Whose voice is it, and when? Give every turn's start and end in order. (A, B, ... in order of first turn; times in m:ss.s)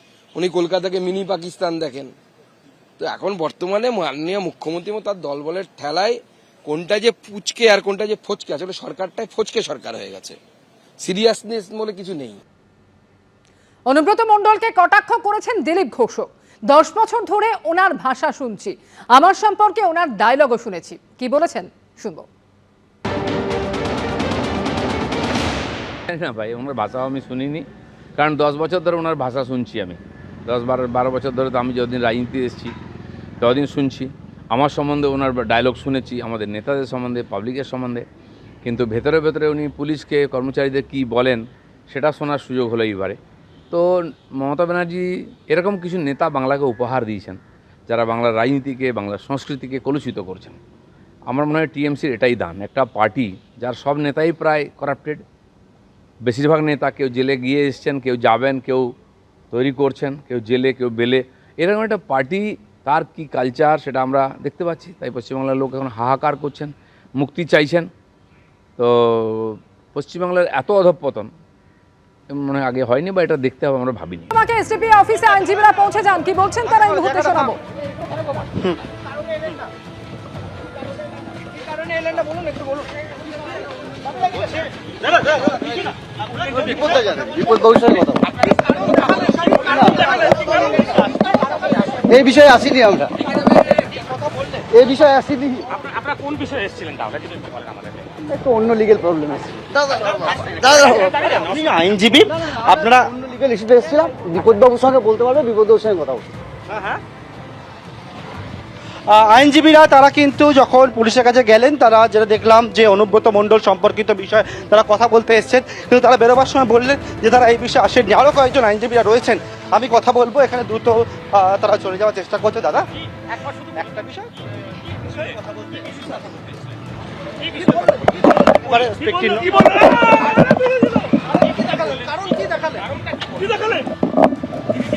0:00.3-0:02.1 A
0:03.0-0:10.4 A
0:11.0-0:12.4 A
0:13.9-0:22.3 B
0:26.1-0:27.6 C
0:28.2-0:32.7 C
0:33.4-0:38.0 C
0:38.6-0:43.2 C
0:44.4-0:50.6 C
0:51.3-0:55.2 C
0:56.2-0:58.9 C
0:59.5-1:07.9 C
1:08.8-1:11.3 C
1:12.3-1:14.3 C
1:14.3-1:17.6 B
1:17.1-1:17.4 D
1:26.5-1:28.3 E
1:29.6-1:31.0 E
1:32.0-1:33.1 E
1:34.7-1:35.7 E
1:38.2-1:41.1 E
1:41.1-1:43.1 D
1:43.1-1:46.3 E
1:46.7-1:47.0 D
1:49.1-2:04.3 D
2:08.6-2:10.4 D
2:11.9-2:12.4 D